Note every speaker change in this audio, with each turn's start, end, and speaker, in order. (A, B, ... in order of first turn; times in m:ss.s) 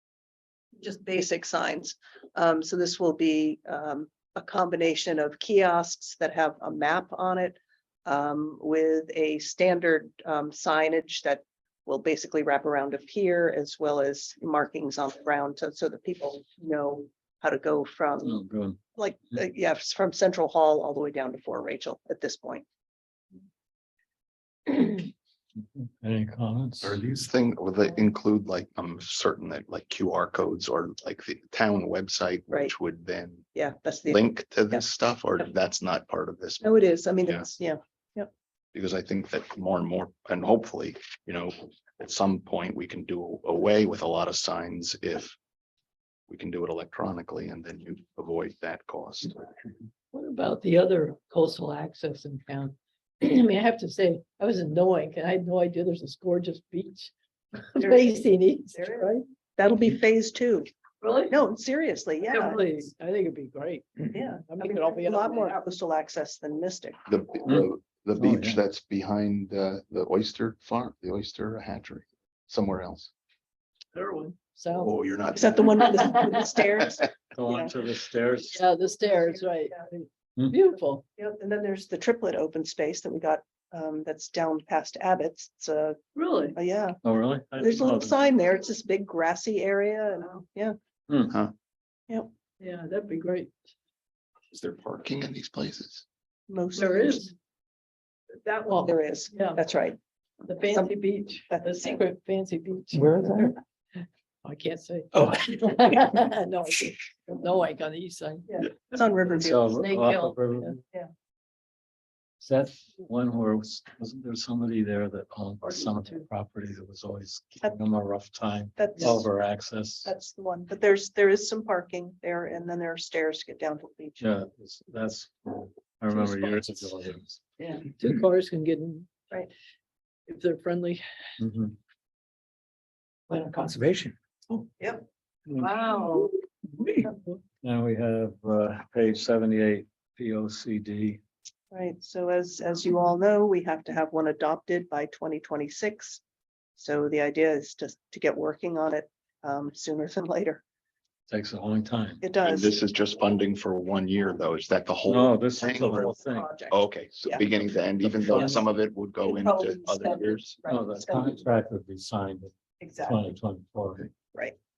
0:00.8-0:18.4 A
0:18.2-0:18.8 B
0:19.0-0:22.6 A
0:24.7-0:25.0 B
0:25.6-0:27.0 B
0:26.8-0:33.5 C
0:33.5-0:34.8 A
0:34.1-0:36.7 C
0:36.6-0:38.3 A
0:38.7-0:45.4 C
0:46.3-0:49.4 C
0:50.1-0:57.1 D
0:57.7-0:59.2 D
0:57.8-1:00.7 A
1:01.0-1:01.3 D
1:01.3-1:02.6 A
1:02.3-1:05.6 D
1:04.1-1:07.0 A
1:07.1-1:13.1 C
1:07.5-1:08.6 B
1:13.9-1:14.9 D
1:14.8-1:16.5 C
1:15.3-1:17.7 A
1:17.3-1:18.6 B
1:18.5-1:21.0 D
1:19.0-1:19.8 A
1:21.2-1:26.0 A
1:26.2-1:26.6 D
1:26.5-1:27.0 A
1:27.0-1:28.3 B
1:27.6-1:30.7 A
1:31.1-1:31.3 B
1:32.6-1:33.6 D
1:34.5-1:36.0 C
1:36.5-1:37.3 A
1:36.8-1:37.3 D
1:38.4-1:39.6 D
1:38.7-1:40.0 A
1:40.5-1:43.0 D
1:40.6-1:40.9 A
1:41.5-1:42.0 A
1:42.9-1:43.6 E
1:44.4-1:48.5 D
1:45.2-1:45.8 E
1:48.5-1:49.8 A
1:49.4-1:50.8 B
1:49.8-1:50.8 D
1:52.4-2:00.1 B
1:58.8-1:59.3 A
2:00.0-2:04.2 A
2:04.2-2:07.4 B
2:08.0-2:09.1 D
2:10.3-2:11.0 D
2:11.4-2:11.7 B
2:13.3-2:14.6 E
2:14.8-2:15.0 A
2:15.9-2:16.3 D
2:16.8-2:17.1 E
2:17.0-2:17.3 D
2:17.6-2:21.2 B
2:21.7-2:26.2 A
2:26.8-2:30.6 A
2:31.3-2:32.2 B
2:32.2-2:32.7 A
2:32.4-2:36.1 C
2:35.0-2:36.5 B
2:35.7-2:37.4 A
2:36.7-2:40.6 C
2:37.4-2:38.7 B
2:39.2-2:41.4 A
2:40.7-2:44.1 B
2:42.8-2:43.2 A